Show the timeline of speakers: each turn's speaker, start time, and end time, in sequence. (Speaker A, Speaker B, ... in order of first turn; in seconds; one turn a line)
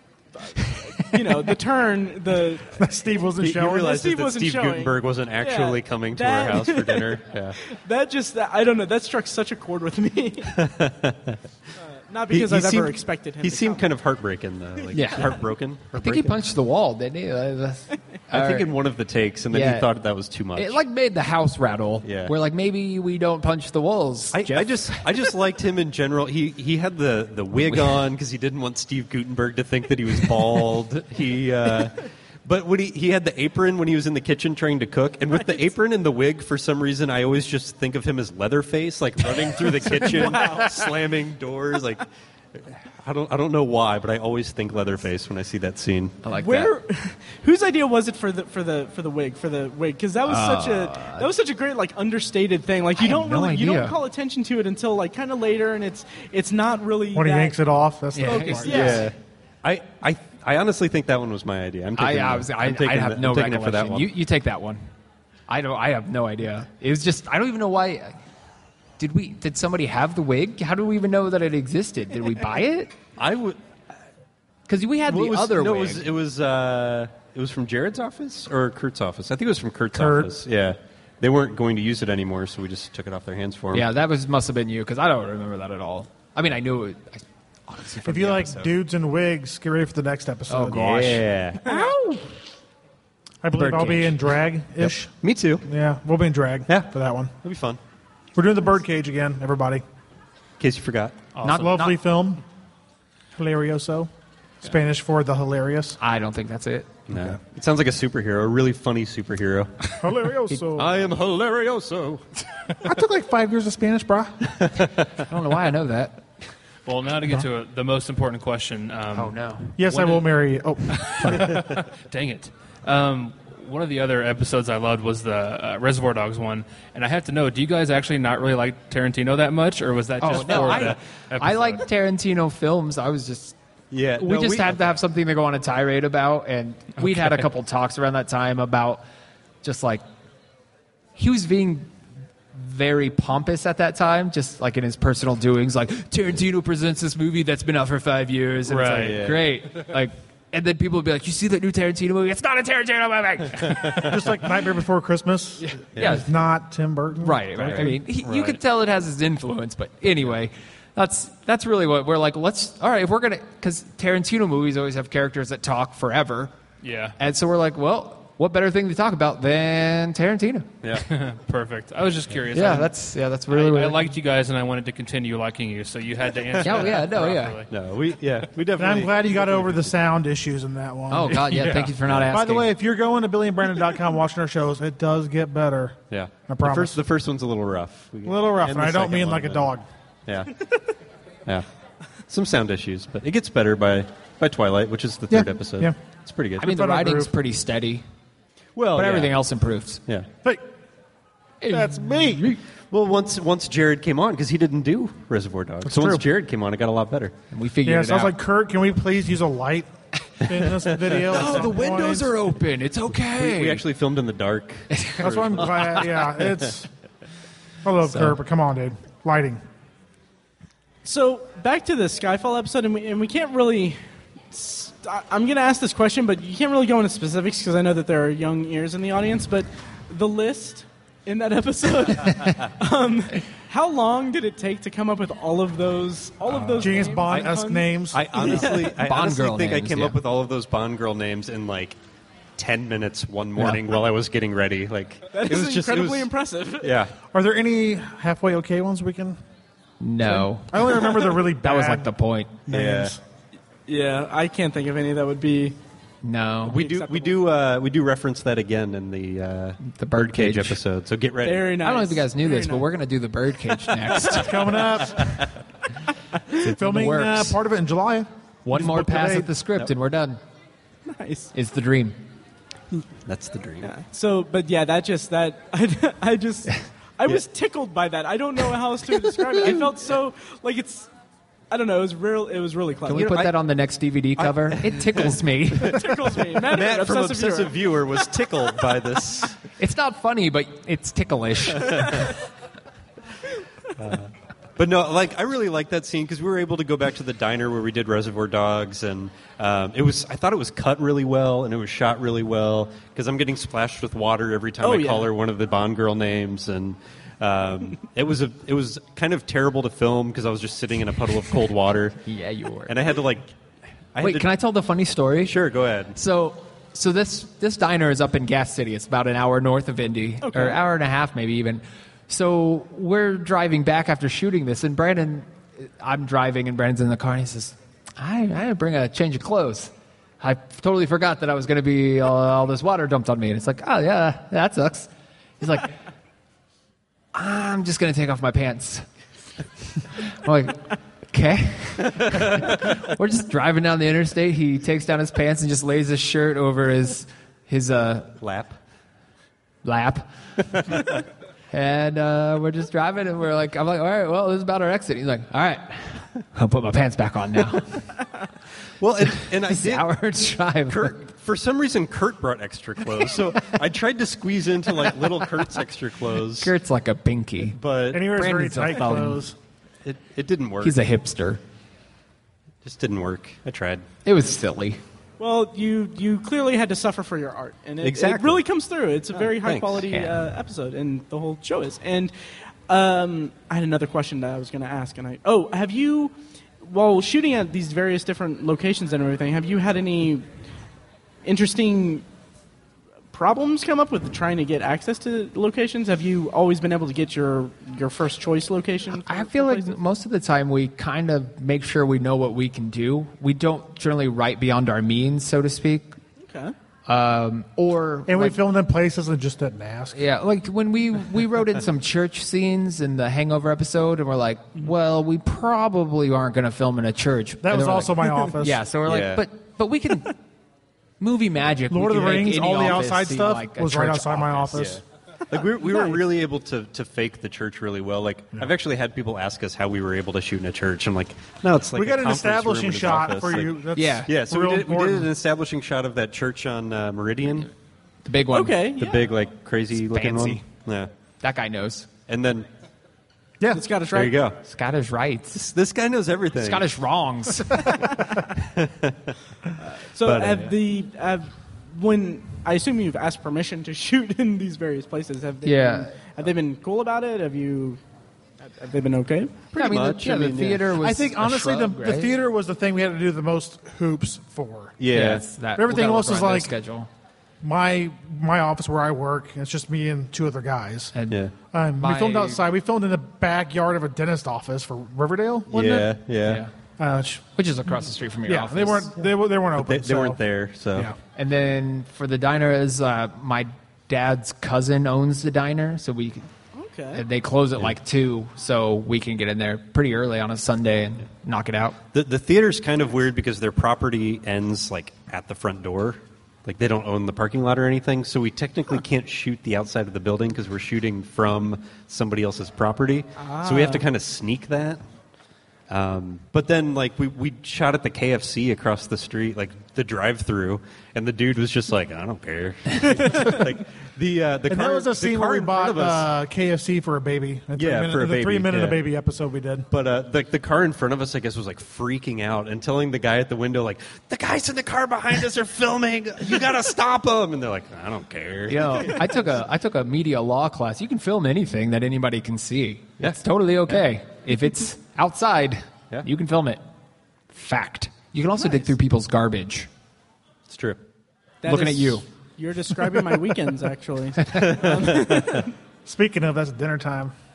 Speaker A: 0.4-2.8
Speaker B: 2.7-4.0
Speaker C: 3.4-7.6
Speaker A: 3.8-10.6
Speaker C: 10.5-11.4
Speaker A: 11.8-13.8
Speaker C: 12.3-16.4
Speaker D: 14.9-15.4
Speaker D: 16.0-18.7
Speaker C: 18.3-20.8
Speaker D: 19.5-19.9
Speaker D: 20.6-25.2
Speaker C: 22.0-22.3
Speaker C: 24.3-46.2
Speaker D: 27.6-28.0
Speaker A: 39.9-40.8
Speaker D: 46.2-46.7
Speaker A: 46.3-57.6
Speaker D: 50.2-51.3
Speaker D: 53.0-54.0
Speaker B: 57.1-59.1
Speaker D: 58.1-59.0
Speaker A: 58.2-59.1
Speaker C: 58.7-64.1
Speaker D: 62.0-64.9
Speaker D: 65.5-68.2
Speaker D: 69.0-72.9
Speaker C: 73.2-73.6
Speaker D: 74.7-76.1
Speaker C: 75.1-83.9
Speaker B: 79.9-80.3
Speaker D: 83.7-88.7
Speaker B: 88.0-91.1
Speaker D: 90.5-92.2
Speaker C: 90.8-91.7
Speaker B: 91.7-92.0
Speaker B: 93.4-95.1
Speaker D: 93.5-94.2
Speaker C: 95.2-95.6
Speaker B: 95.6-97.3
Speaker C: 97.4-97.8
Speaker B: 98.3-99.8
Speaker C: 100.6-101.3
Speaker E: 101.3-101.8
Speaker D: 101.4-102.0
Speaker B: 101.5-102.4
Speaker B: 103.4-104.1
Speaker B: 104.6-106.0
Speaker D: 106.0-107.0
Speaker C: 107.1-109.7
Speaker B: 107.1-107.4
Speaker B: 110.0-110.9
Speaker D: 110.5-110.8
Speaker C: 110.8-112.2
Speaker B: 112.8-114.6
Speaker C: 114.6-115.1
Speaker D: 115.3-116.2
Speaker E: 116.9-120.3
Speaker D: 119.2-119.7
Speaker B: 119.8-121.6
Speaker E: 120.9-131.8
Speaker D: 130.2-133.6
Speaker C: 130.6-130.9
Speaker C: 133.9-135.0
Speaker D: 134.2-139.0
Speaker E: 137.0-137.4
Speaker D: 139.6-140.0
Speaker D: 141.2-141.9
Speaker D: 142.5-154.2
Speaker C: 148.7-149.5
Speaker B: 154.0-157.7
Speaker D: 155.6-156.3
Speaker C: 156.0-156.2
Speaker D: 157.2-166.5
Speaker C: 157.6-158.6
Speaker E: 166.8-167.2
Speaker D: 167.2-170.7
Speaker E: 171.0-172.9
Speaker D: 172.5-174.1
Speaker E: 173.5-177.7
Speaker D: 176.6-177.6
Speaker C: 177.7-180.0
Speaker B: 178.8-181.6
Speaker D: 181.1-182.7
Speaker E: 181.5-181.9
Speaker C: 182.0-182.3
Speaker B: 182.3-187.0
Speaker C: 186.1-189.7
Speaker B: 188.2-189.8
Speaker C: 190.3-190.7
Speaker C: 192.3-196.7
Speaker B: 195.3-196.0
Speaker B: 196.6-197.3
Speaker D: 196.6-198.1
Speaker C: 198.8-199.4
Speaker D: 199.0-200.0
Speaker D: 201.6-202.6
Speaker B: 201.7-202.6
Speaker C: 202.9-207.3
Speaker D: 205.9-206.2
Speaker D: 207.5-208.3
Speaker B: 207.8-209.9
Speaker B: 210.4-212.3
Speaker C: 211.0-211.6
Speaker D: 211.2-213.8
Speaker C: 213.2-216.7
Speaker D: 214.9-216.0
Speaker B: 215.2-216.9
Speaker B: 217.8-219.6
Speaker D: 218.1-218.4
Speaker A: 221.1-224.0
Speaker A: 224.5-238.5
Speaker B: 236.8-238.6
Speaker C: 238.1-242.0
Speaker D: 238.6-240.2
Speaker C: 242.6-246.3
Speaker A: 245.3-247.0
Speaker C: 246.8-247.1
Speaker B: 247.3-249.4
Speaker D: 250.0-252.6
Speaker B: 250.2-252.1
Speaker B: 252.7-253.2
Speaker C: 252.7-253.2
Speaker A: 253.9-255.8
Speaker D: 256.2-256.8
Speaker C: 256.6-261.7
Speaker A: 256.7-257.4
Speaker D: 259.9-260.8
Speaker A: 261.4-262.9
Speaker D: 261.7-264.8
Speaker B: 264.3-265.4
Speaker D: 266.6-267.6
Speaker B: 266.6-269.5
Speaker D: 268.6-270.4
Speaker A: 271.1-271.5
Speaker D: 271.5-272.2
Speaker C: 273.2-273.9
Speaker A: 273.8-281.1
Speaker C: 279.6-279.9
Speaker A: 281.7-283.4
Speaker D: 283.1-286.1
Speaker C: 283.1-283.5
Speaker C: 284.4-286.0
Speaker A: 285.8-287.8
Speaker C: 286.7-289.6
Speaker D: 289.8-292.4
Speaker C: 291.8-292.3
Speaker C: 294.0-312.3
Speaker A: 304.8-305.3
Speaker D: 312.3-312.9
Speaker C: 312.9-313.5
Speaker C: 314.1-314.5
Speaker D: 314.2-315.6
Speaker C: 315.4-316.2
Speaker D: 316.1-335.9
Speaker A: 320.4-320.8
Speaker D: 337.3-339.1
Speaker D: 340.3-348.4
Speaker C: 342.2-342.4
Speaker C: 348.4-348.8
Speaker D: 349.8-351.2
Speaker D: 351.7-358.1
Speaker C: 359.0-360.1
Speaker D: 359.6-361.2
Speaker C: 360.9-366.7
Speaker D: 366.6-367.8
Speaker C: 367.7-368.3
Speaker B: 368.1-369.6
Speaker D: 368.3-369.4
Speaker C: 370.1-371.0
Speaker D: 370.8-371.6
Speaker C: 372.8-374.1
Speaker D: 374.3-375.0
Speaker A: 375.4-382.3
Speaker C: 378.0-378.6
Speaker C: 379.5-380.1
Speaker D: 380.1-380.4
Speaker A: 382.9-390.5
Speaker A: 391.4-392.2
Speaker A: 393.3-400.0
Speaker D: 399.2-406.1
Speaker A: 406.4-406.8
Speaker D: 407.1-408.6
Speaker B: 408.3-410.2
Speaker D: 410.1-420.4
Speaker B: 417.6-418.8
Speaker C: 419.1-419.4
Speaker D: 421.2-424.9
Speaker B: 421.9-425.0
Speaker C: 424.7-437.7
Speaker B: 431.9-435.3
Speaker D: 433.9-434.3
Speaker D: 438.2-438.9
Speaker A: 438.5-439.3
Speaker C: 439.0-441.1
Speaker D: 439.9-440.6
Speaker D: 441.4-442.1
Speaker C: 442.3-442.7
Speaker A: 443.7-444.4
Speaker C: 444.1-444.6
Speaker D: 444.6-445.6
Speaker C: 445.5-446.9
Speaker D: 446.6-448.3
Speaker C: 448.6-449.4
Speaker A: 449.8-458.0
Speaker C: 450.2-450.7
Speaker D: 455.6-456.1
Speaker A: 458.6-459.7
Speaker C: 459.7-460.9
Speaker D: 459.8-462.3
Speaker B: 461.0-465.0
Speaker C: 465.0-465.5
Speaker D: 465.1-467.1
Speaker B: 465.8-466.8
Speaker B: 467.6-471.1
Speaker D: 471.1-471.4
Speaker B: 471.7-476.1
Speaker D: 472.0-472.6
Speaker C: 475.7-476.6
Speaker D: 476.4-476.7
Speaker B: 477.0-477.5
Speaker D: 477.6-479.2
Speaker B: 478.5-480.4
Speaker C: 479.8-481.1
Speaker D: 481.4-486.5
Speaker A: 486.7-487.2
Speaker D: 487.1-492.0
Speaker C: 492.1-505.0
Speaker A: 503.4-504.0
Speaker C: 505.9-516.3
Speaker B: 514.7-519.9
Speaker C: 517.8-519.0
Speaker C: 519.9-529.3
Speaker D: 528.7-536.8
Speaker D: 537.5-539.9
Speaker C: 540.7-541.0
Speaker A: 541.6-545.7
Speaker D: 541.7-542.2
Speaker C: 544.6-545.6
Speaker B: 546.0-547.3